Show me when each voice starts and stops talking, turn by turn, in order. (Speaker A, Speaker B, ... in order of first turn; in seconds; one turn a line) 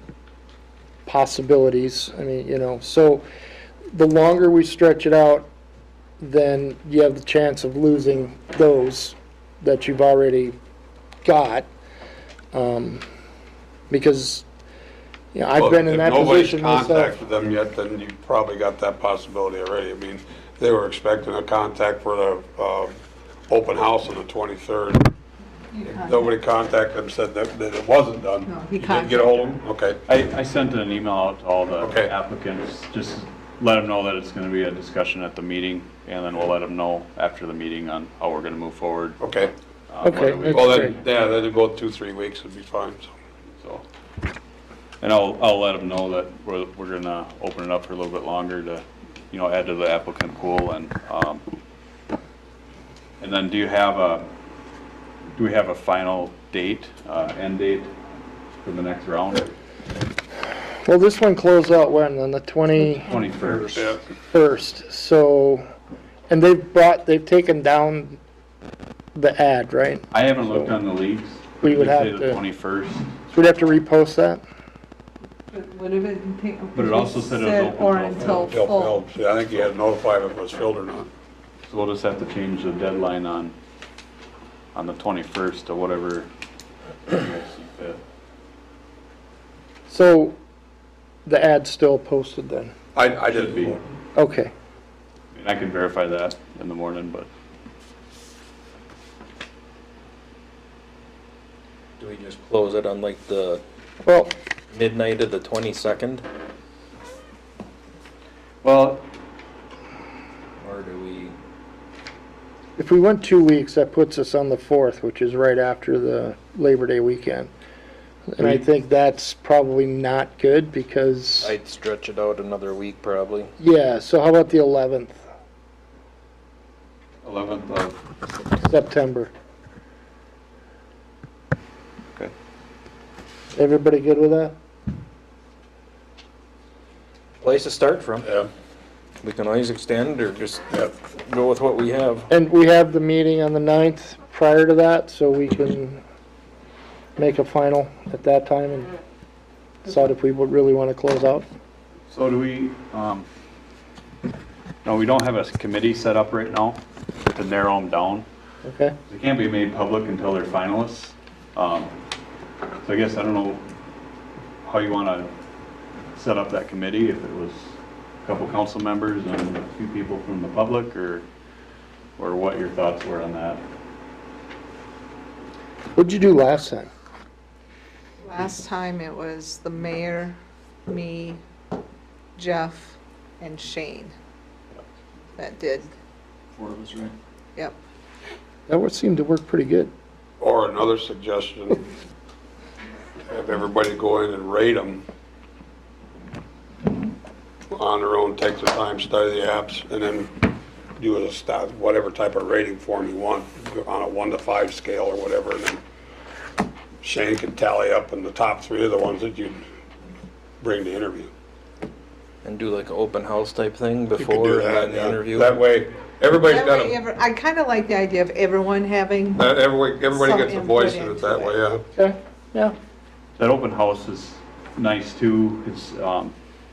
Speaker A: 1.1-3.2
Speaker A: 3.9-5.5
Speaker A: 6.2-10.6
Speaker A: 11.2-11.7
Speaker A: 12.5-13.0
Speaker A: 13.9-14.4
Speaker A: 15.3-17.1
Speaker B: 15.6-22.9
Speaker B: 23.5-25.1
Speaker C: 25.7-26.3
Speaker B: 25.9-30.0
Speaker C: 28.4-29.6
Speaker D: 30.1-39.2
Speaker B: 31.8-32.1
Speaker B: 39.2-39.5
Speaker D: 39.9-41.0
Speaker A: 40.0-41.0
Speaker B: 40.5-43.1
Speaker D: 45.0-51.4
Speaker D: 53.2-54.3
Speaker D: 55.3-57.9
Speaker D: 58.6-59.5
Speaker A: 60.8-63.8
Speaker D: 62.9-63.8
Speaker B: 63.7-64.0
Speaker A: 64.3-65.6
Speaker A: 66.3-68.2
Speaker A: 69.1-70.8
Speaker D: 70.1-73.1
Speaker A: 71.6-72.4
Speaker A: 73.3-74.4
Speaker C: 75.5-79.0
Speaker D: 76.7-78.5
Speaker B: 78.2-81.1
Speaker D: 81.7-83.5
Speaker D: 84.7-86.3
Speaker D: 87.1-88.0
Speaker A: 89.9-90.4
Speaker A: 91.2-92.7
Speaker B: 92.9-93.8
Speaker D: 93.3-93.8
Speaker A: 94.2-94.5
Speaker D: 95.3-97.3
Speaker E: 102.0-103.6
Speaker A: 104.0-104.3
Speaker E: 104.7-106.2
Speaker D: 108.6-109.1
Speaker E: 110.6-111.3
Speaker A: 112.8-117.5
Speaker A: 118.3-121.5
Speaker E: 121.4-123.5
Speaker A: 123.6-125.2
Speaker D: 127.2-128.0
Speaker A: 128.6-129.3
Speaker A: 133.5-134.5
Speaker E: 137.4-138.3
Speaker B: 138.2-138.5
Speaker E: 139.2-142.3
Speaker A: 142.3-146.0
Speaker A: 147.2-148.9
Speaker A: 149.8-151.5
Speaker D: 152.1-153.2
Speaker D: 154.8-158.2
Speaker A: 158.6-158.9
Speaker D: 159.1-161.9
Speaker D: 162.8-163.6
Speaker D: 164.6-165.3
Speaker D: 166.1-171.2
Speaker D: 172.2-173.6
Speaker A: 175.9-176.9
Speaker C: 178.2-181.4
Speaker C: 182.4-184.1
Speaker C: 185.4-185.9
Speaker E: 186.6-187.1
Speaker A: 188.7-189.9
Speaker B: 190.4-191.8
Speaker B: 193.3-195.0
Speaker B: 197.7-200.3
Speaker B: 201.0-205.8
Speaker B: 207.0-209.6
Speaker B: 210.6-211.3
Speaker E: 212.4-215.6
Speaker B: 214.2-216.9
Speaker C: 216.4-221.6
Speaker B: 219.3-221.8
Speaker A: 221.9-222.7
Speaker D: 223.4-226.3